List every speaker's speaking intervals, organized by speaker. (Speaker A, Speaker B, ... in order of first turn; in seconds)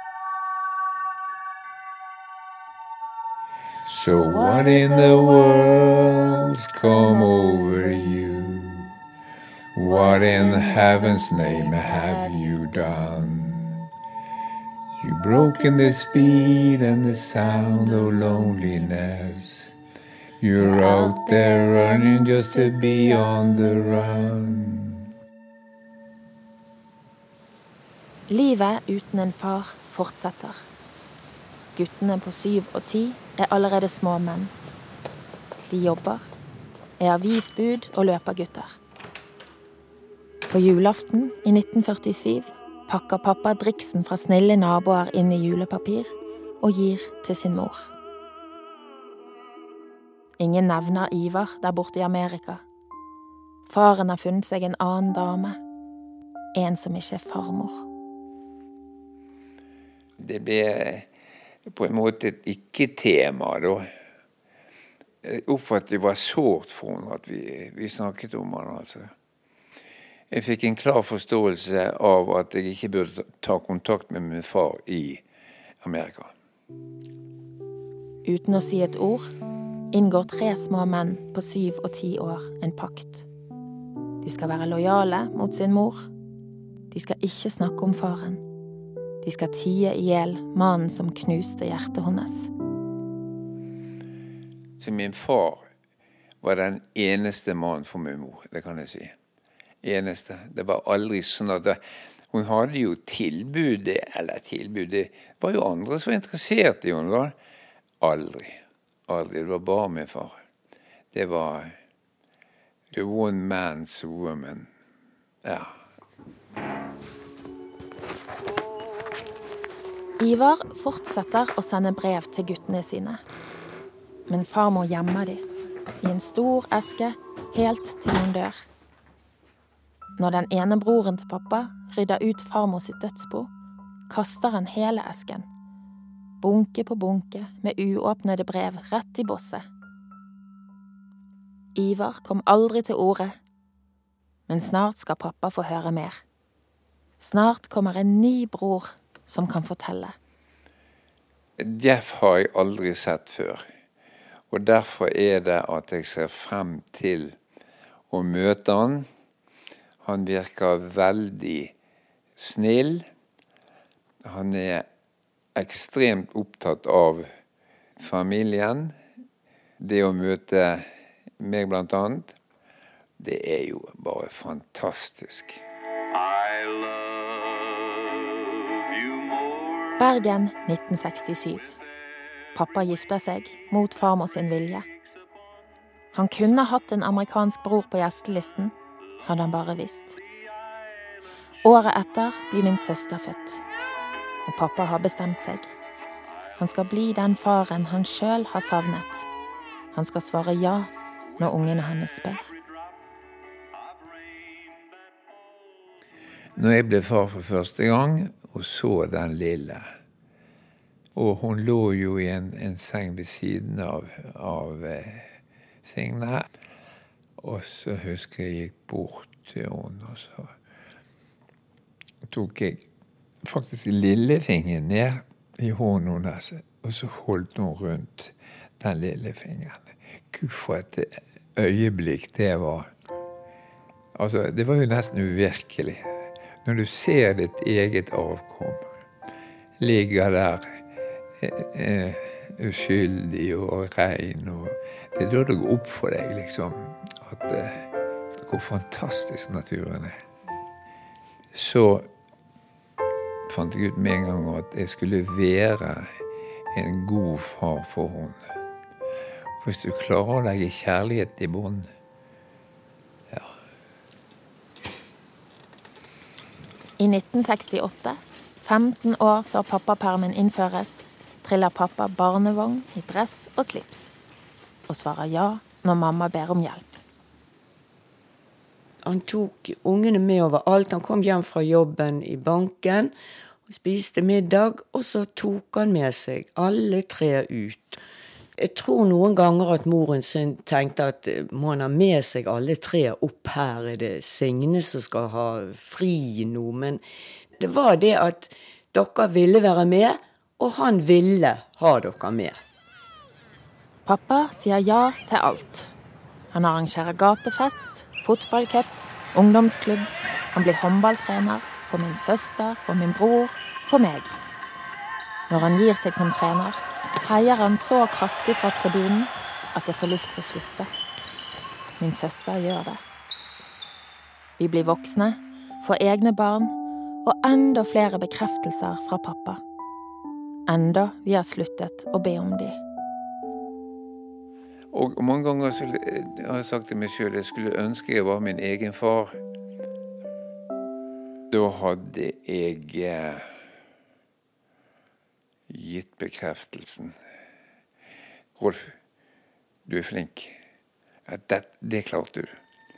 Speaker A: 3.9-8.9, 9.7-13.8, 15.0-19.7, 20.4-25.1, 60.2-61.1, 61.7-63.9, 65.2-69.1, 70.3-75.2, 75.8-76.3, 94.8-95.6, 96.4-99.1, 99.8-101.8, 102.3-107.3, 108.0-110.4, 111.1-111.7, 112.9-114.7, 115.4-115.7, 151.6-153.7, 154.5-157.4, 158.1-159.1, 160.0-161.7, 162.4-163.1, 164.2-164.9, 165.6-167.3, 168.0-168.9, 169.8-170.9, 171.4-172.4, 173.2-175.6, 206.6-209.9, 211.1-216.5, 217.4-220.5, 222.3-222.8, 223.4-232.9, 234.2-238.9, 239.8-240.8, 241.4-250.2, 251.5-252.1, 253.5-256.2, 256.7-258.4, 259.6-261.9, 334.9-339.4, 341.5-343.5, 345.7-347.1, 348.6-348.9, 349.9-350.6, 351.3-352.6
Speaker B: 4.3-5.2, 9.9-12.4, 20.6-21.8, 22.4-22.8, 28.3-30.7, 31.7-34.5, 35.7-36.3, 37.0-38.8, 40.5-47.9, 50.4-52.6, 53.7-55.6, 56.5-57.9, 78.2-79.3, 79.9-83.3, 84.2-86.1, 86.9-88.4, 89.2-92.5, 120.2-123.2, 124.3-125.4, 126.0-128.7, 130.2-133.5, 134.1-135.5, 136.4-139.6, 141.8-143.4, 144.5-146.2, 147.2-150.1, 180.0-181.7, 182.6-184.9, 186.1-190.2, 191.6-193.6, 194.5-195.7, 196.6-199.3, 199.9-202.5, 267.0-274.1, 274.9-277.0, 304.1-305.9, 306.5-314.4, 315.5-320.9, 322.0-323.0, 324.6-329.6, 330.7-332.8
Speaker C: 279.0-283.1, 283.7-288.0, 288.6-297.0, 297.6-302.6